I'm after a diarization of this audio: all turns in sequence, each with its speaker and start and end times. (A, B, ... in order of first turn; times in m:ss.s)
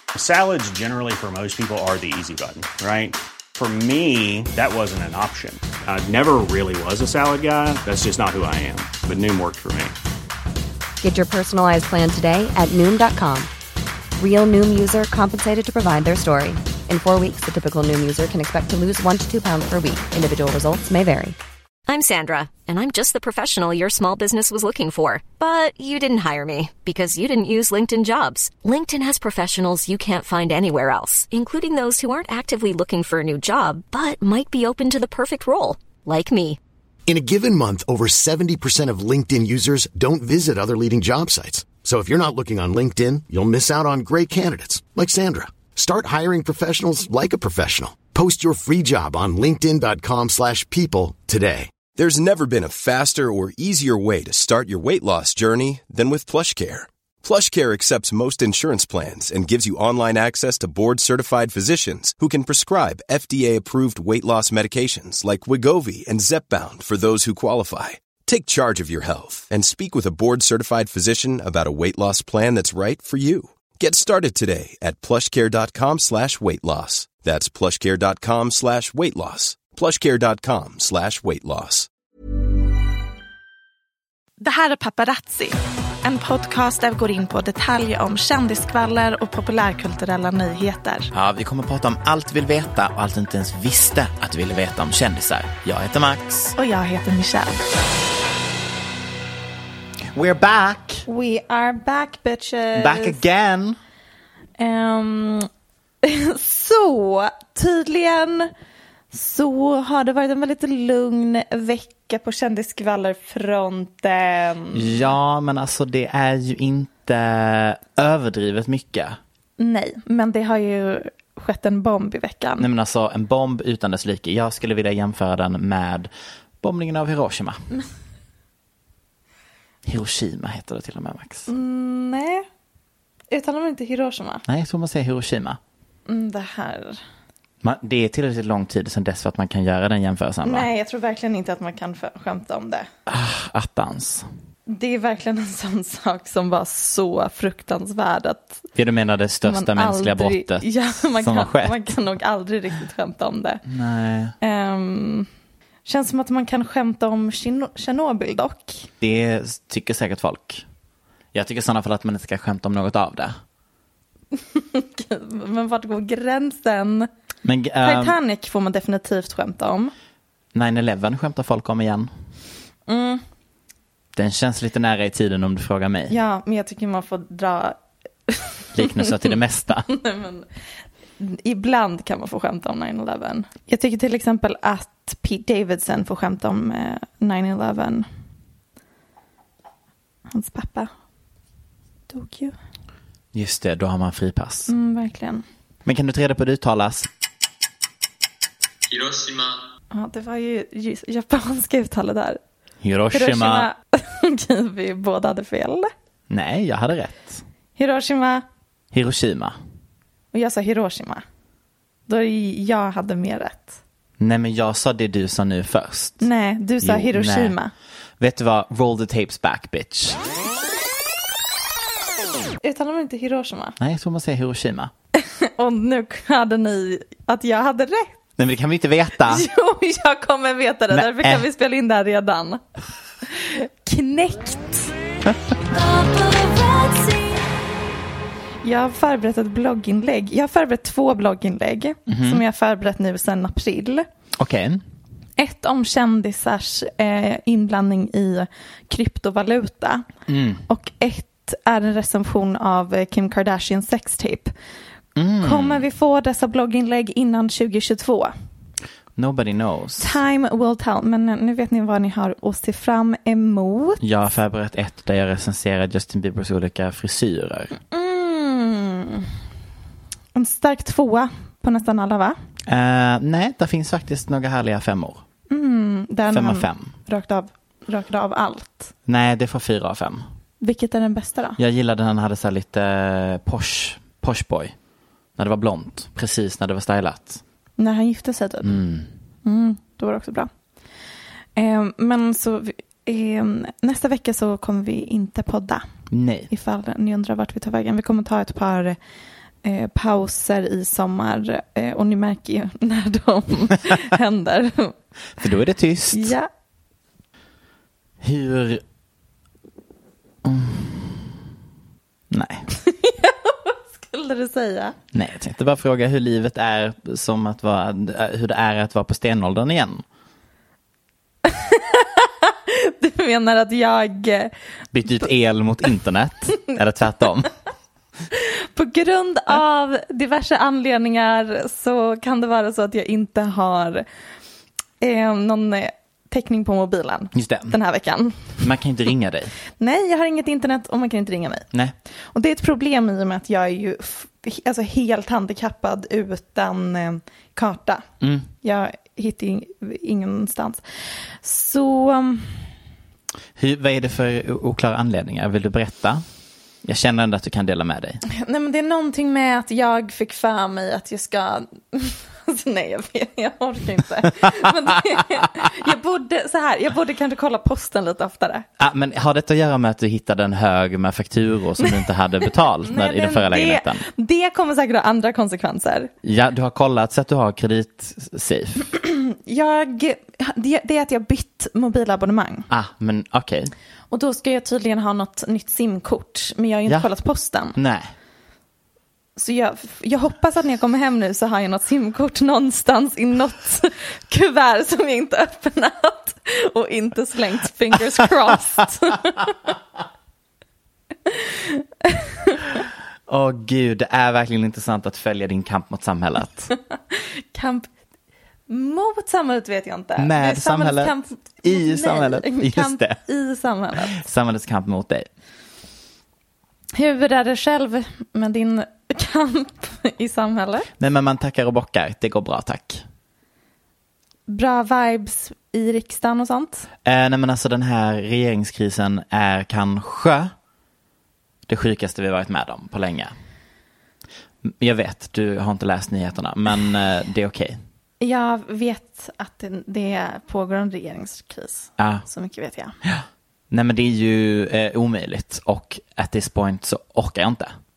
0:00.2-0:09.9 A
0:11.0-0:13.5 B
0:14.2-0:21.4 B
0:21.9-0:36.6 C
0:37.1-0:51.7 D
0:52.0-1:21.9 E
1:24.4-1:31.1 F
1:31.1-1:36.6 G
1:36.6-1:37.6 F
1:40.1-1:41.1 G
1:41.1-1:43.2 F
1:42.8-1:43.8 G
1:44.6-1:45.5 F
1:46.0-1:48.5 F
1:49.1-1:55.1 F
1:54.7-1:59.2 G
1:59.6-2:02.7 F
2:02.6-2:07.7 G
2:09.8-2:11.5 G
2:11.5-2:12.5 F
2:13.3-2:14.4 F
2:14.5-2:15.6 G
2:16.1-2:17.0 F
2:17.6-2:20.7 G
2:20.4-2:22.9 F
2:23.1-2:24.3 G
2:24.7-2:28.6 F
2:28.8-2:30.7 G
2:29.4-2:33.6 F
2:31.2-2:31.9 G
2:33.7-2:34.3 G
2:34.4-2:35.3 F
2:35.9-2:38.9 F
2:39.0-2:40.6 G
2:41.3-2:43.4 G
2:44.5-2:47.1 F
2:47.4-2:48.2 G
2:47.8-2:49.9 F
2:50.5-2:52.1 G
2:52.9-2:53.2 F
2:54.1-2:56.2 G
2:56.1-2:59.1 F
2:58.7-2:59.9 G
2:59.9-3:00.5 F
3:01.2-3:08.1 F
3:10.3-3:10.9 F
3:12.1-3:12.6 F
3:13.3-3:14.7 G
3:14.7-3:15.4 F
3:15.8-3:17.1 G
3:19.9-3:22.4 F
3:22.8-3:23.7 G
3:23.1-3:25.9 F
3:26.3-3:27.4 G
3:27.8-3:28.4 F
3:28.9-3:29.6 G
3:30.3-3:31.2 F
3:32.1-3:33.8 F
3:34.2-3:36.3 G
3:36.2-3:37.7 F
3:36.8-3:37.6 G
3:38.2-3:40.2 G
3:42.6-3:43.8 F
3:43.8-3:44.9 G
3:45.2-3:48.2 F
3:48.4-3:49.4 G
3:49.2-3:52.6 F
3:50.9-3:51.4 G
3:53.3-3:54.9 F
3:55.7-3:57.4 F
3:58.6-4:04.1 F
4:02.1-4:02.4 G
4:04.4-4:04.8 G
4:05.4-4:10.0 F
4:10.3-4:10.6 G
4:10.7-4:14.5 F
4:15.2-4:15.8 G
4:15.4-4:18.3 F
4:19.2-4:20.2 G
4:20.0-4:24.0 F
4:24.0-4:27.7 G
4:27.8-4:29.3 F
4:30.4-4:32.4 F
4:32.7-4:35.2 G
4:35.5-4:38.9 F
4:36.3-4:36.9 G
4:39.1-4:40.2 G
4:40.6-4:41.6 F
4:41.6-4:44.8 G
4:45.4-4:47.4 G
4:47.8-4:48.8 F
4:48.6-4:49.1 G
4:49.4-4:50.5 F
4:51.6-4:55.8 F
4:56.1-4:56.5 G
4:56.5-4:59.0 F
4:59.6-5:05.0 F
5:05.4-5:06.4 G
5:06.1-5:06.5 F
5:08.2-5:08.8 G
5:10.4-5:11.4 G
5:12.3-5:12.7 G
5:12.8-5:15.0 F
5:15.1-5:20.0 G
5:21.4-5:24.5 F
5:24.9-5:27.5 G
5:28.3-5:34.0 F
5:35.0-5:38.7 F
5:37.3-5:37.8 G
5:38.6-5:39.5 G
5:39.8-5:41.7 F
5:42.3-5:48.1 F
5:48.2-5:48.5 G
5:48.6-5:52.7 F
5:53.6-5:56.2 G
5:56.8-5:58.2 G
5:58.3-6:08.7 F
6:08.8-6:14.1 G
6:12.8-6:16.1 F
6:16.2-6:18.9 G
6:19.0-6:22.7 F
6:22.7-6:23.7 G
6:24.1-6:27.8 F
6:27.7-6:28.1 G
6:29.4-6:39.7 F
6:41.3-6:42.6 F
6:43.3-6:46.7 G
6:47.1-6:47.9 F
6:48.7-6:54.2 F
6:50.2-6:53.2 G
6:54.0-6:55.3 G
6:57.0-7:00.9 F
7:01.0-7:03.0 G
7:04.5-7:06.9 F
7:07.0-7:10.5 G
7:11.7-7:13.3 G
7:14.6-7:17.8 G
7:18.2-7:23.0 F
7:22.0-7:22.2 G
7:23.0-7:27.7 G